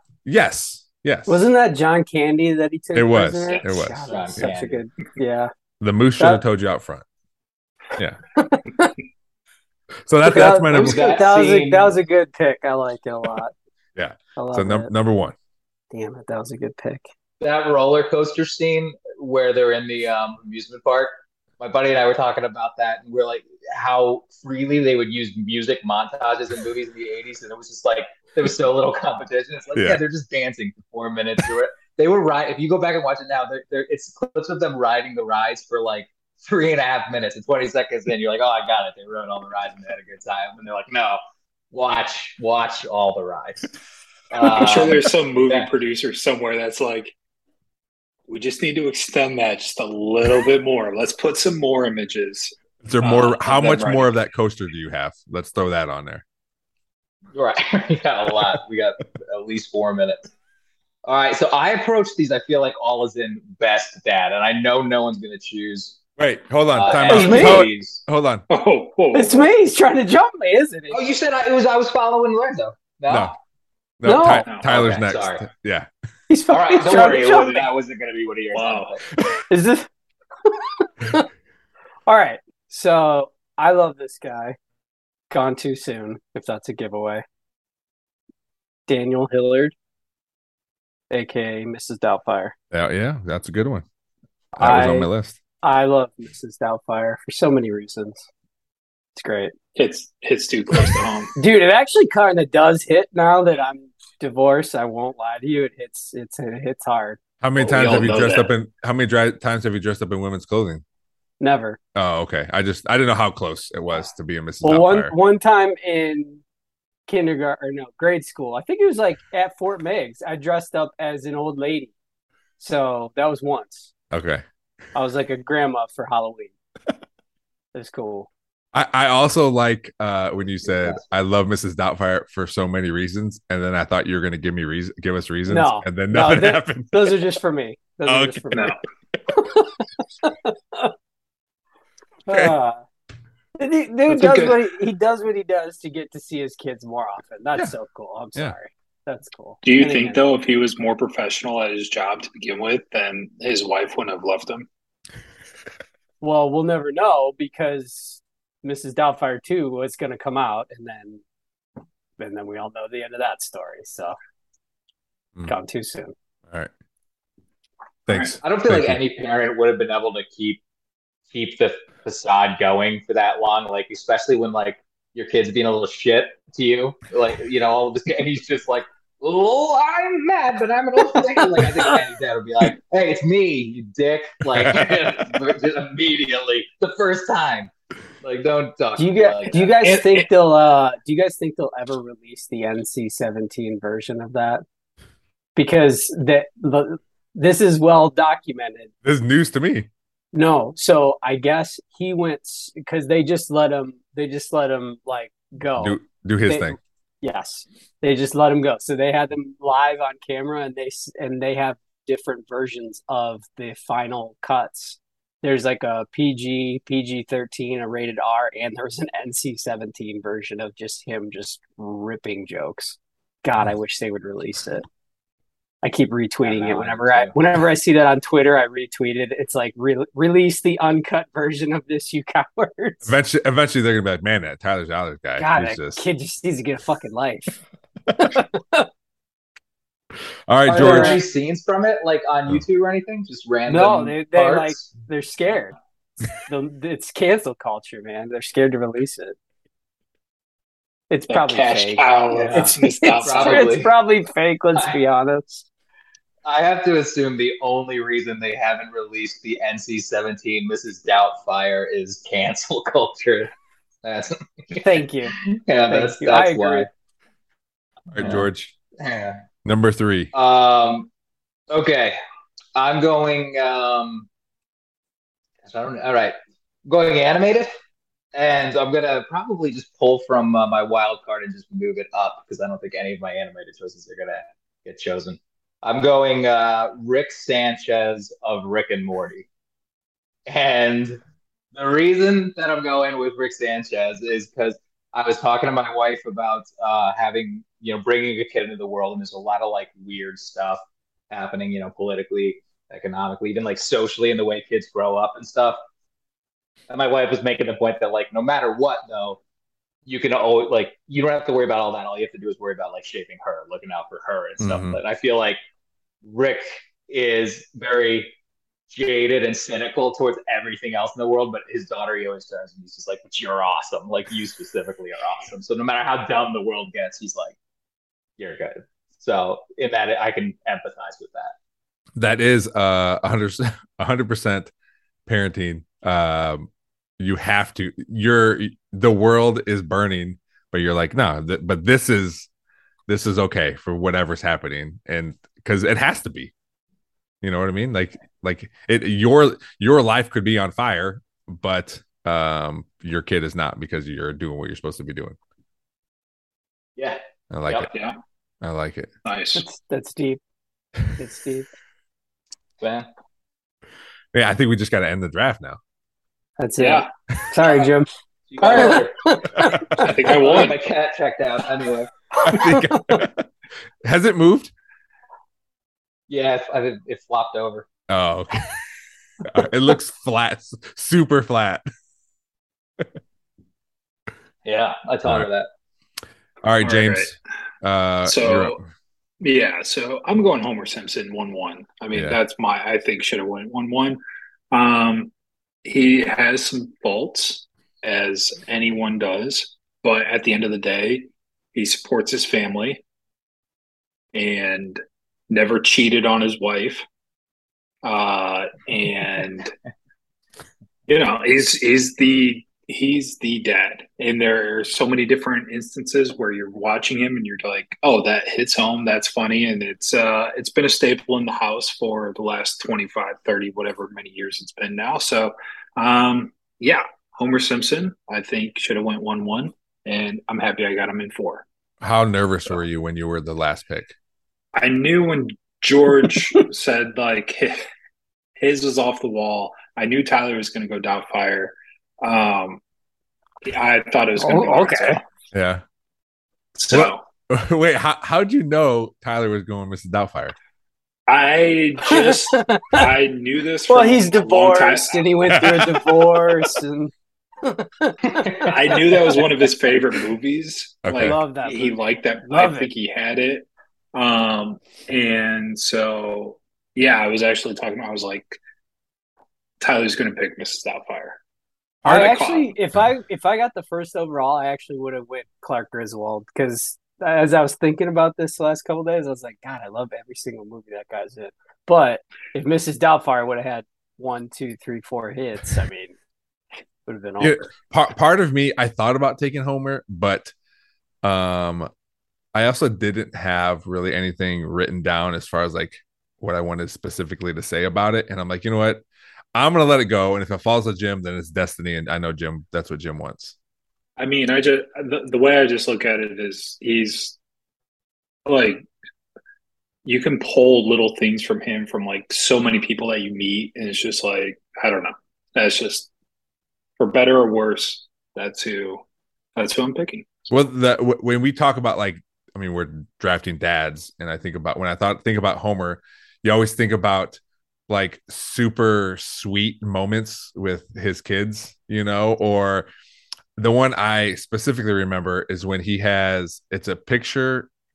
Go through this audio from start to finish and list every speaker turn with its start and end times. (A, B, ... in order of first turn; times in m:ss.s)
0:00.2-0:01.4 A
0:01.3-0:05.5 B
0:03.0-0:04.4 A
0:04.1-0:04.8 C
0:05.8-0:07.0 A
0:08.4-0:08.9 B
0:10.1-0:11.2 A
0:10.2-0:13.5 B
0:10.7-0:12.0 C
0:14.0-0:15.4 A
0:14.4-0:14.9 B
0:15.9-0:17.1 B
0:17.4-0:41.2 C
0:29.8-0:30.0 A
0:41.7-0:43.7 C
0:44.3-0:45.7 C
0:44.4-0:47.1 D
0:48.3-0:54.1 D
0:52.8-0:56.2 A
0:57.3-1:00.3 C
1:01.0-1:06.0 C
1:06.2-1:08.4 A
1:06.7-1:08.0 C
1:07.1-1:07.7 B
1:08.5-1:09.5 D
1:09.1-1:11.0 B
1:10.9-1:13.4 C
1:13.1-1:13.3 A
1:14.0-1:15.9 A
1:14.0-1:14.5 B
1:14.6-1:15.5 C
1:16.3-1:17.7 B
1:16.5-1:19.0 C
1:18.5-1:19.0 D
1:19.5-1:19.9 B
1:20.4-1:21.3 B
1:22.1-1:24.6 B
1:25.3-1:27.2 B
1:28.9-1:29.8 B
1:31.1-1:32.6 B
1:32.7-1:33.8 A
1:34.6-1:35.1 B
1:34.6-1:35.4 A
1:35.6-1:38.2 B
1:39.2-1:39.5 B
1:39.8-1:41.3 D
1:41.4-1:47.2 B
1:47.4-1:50.8 A
1:47.6-1:48.5 D
1:51.4-1:51.8 B
1:52.0-1:55.1 A
1:54.6-1:56.4 B
1:57.1-2:01.9 B
2:02.6-2:03.9 B
2:04.1-2:04.4 A
2:05.0-2:06.5 B
2:07.7-2:08.3 B
2:08.7-2:17.2 A
2:10.7-2:11.0 C
2:15.5-2:18.8 B
2:18.0-2:18.7 A
2:18.5-2:18.8 D
2:19.3-2:20.9 B
2:22.3-2:22.8 B
2:22.3-2:22.5 A
2:23.6-2:30.2 B
2:24.1-2:24.6 D
2:29.6-2:34.7 D
2:36.2-2:41.2 B
2:42.2-2:44.2 B
2:45.5-2:46.1 B
2:48.1-2:49.0 A
2:48.4-2:50.6 C
2:51.3-3:07.7 C
3:04.5-3:05.0 A
3:08.2-3:09.7 C
3:09.0-3:14.6 B
3:09.8-3:10.3 D
3:15.6-3:18.9 B
3:19.0-3:19.9 A
3:20.3-3:44.8 B
3:25.8-3:26.8 A
3:45.8-3:53.1 B
3:46.4-3:47.4 C
3:53.0-3:56.0 A
3:55.4-3:57.6 B
3:58.2-3:58.9 B
4:00.5-4:01.2 A
4:00.7-4:04.9 C
4:00.7-4:01.2 B
4:03.7-4:05.8 B
4:06.5-4:09.4 B
4:11.1-4:15.6 B
4:11.3-4:13.7 D
4:12.3-4:13.9 C
4:16.4-4:23.5 C
4:24.0-4:26.9 C
4:24.8-4:25.4 B
4:25.9-4:26.9 B
4:28.1-4:28.7 A
4:28.1-4:28.5 C
4:29.0-4:29.4 C
4:29.6-4:30.3 A
4:30.3-4:31.1 C
4:31.7-4:32.2 C
4:32.8-4:34.3 C
4:35.6-4:36.4 C
4:36.9-4:37.7 C
4:38.3-4:49.5 C
4:50.5-4:51.2 C
4:51.7-5:05.8 C
5:06.9-5:09.4 C
5:10.1-5:15.6 C
5:14.6-5:15.0 A
5:16.2-5:18.3 C
5:18.9-5:27.6 C
5:28.4-5:31.5 C
5:32.2-5:34.7 A
5:35.3-5:36.7 A
5:37.2-5:42.5 A
5:43.1-5:46.5 A
5:47.4-5:55.4 A
5:57.0-5:57.9 C
5:57.5-5:57.9 A
5:58.6-5:59.1 A
5:59.2-5:59.6 D
5:59.6-6:00.4 B
6:01.2-6:01.7 B
6:02.8-6:03.1 C
6:04.3-6:05.8 A
6:06.6-6:08.1 B
6:06.8-6:07.1 D
6:08.5-6:12.1 C
6:08.6-6:09.1 D
6:08.7-6:10.1 B
6:09.6-6:10.1 A
6:09.9-6:10.8 D
6:12.4-6:13.2 B
6:12.4-6:13.5 A
6:14.0-6:14.7 A
6:16.3-6:17.9 C
6:18.1-6:18.8 A
6:19.4-6:21.8 A
6:24.6-6:25.7 C
6:26.6-6:28.8 A
6:26.8-6:27.3 D
6:28.2-6:28.8 D
6:29.4-6:34.2 D
6:34.7-6:35.3 D
6:35.8-6:43.0 D
6:44.3-6:45.0 D
6:45.5-6:47.0 D
6:48.0-6:49.7 D
6:51.1-7:11.6 D
7:12.0-7:14.1 A
7:14.8-7:17.8 D
7:18.6-7:22.8 D
7:23.6-7:25.2 D
7:24.4-7:25.2 B
7:25.5-7:25.8 A
7:26.8-7:27.2 D
7:26.9-7:30.6 A
7:31.3-7:35.3 D
7:32.1-7:33.1 B
7:33.9-7:39.4 B
7:35.5-7:36.2 A
7:38.3-7:39.4 C
7:38.6-7:48.6 D
7:41.0-7:41.4 A
7:41.2-7:42.9 B
7:49.8-7:51.4 D
7:52.0-7:52.7 D
7:52.0-8:06.1 B
8:07.1-8:07.7 B
8:07.4-8:10.5 A
8:11.2-8:11.9 A
8:12.5-8:19.0 A
8:19.6-8:23.6 A
8:24.2-8:27.4 D
8:28.5-8:28.8 D
8:30.0-8:36.1 D
8:37.0-8:39.0 D
8:39.6-8:40.3 D
8:40.5-8:52.9 A
8:53.6-8:57.7 A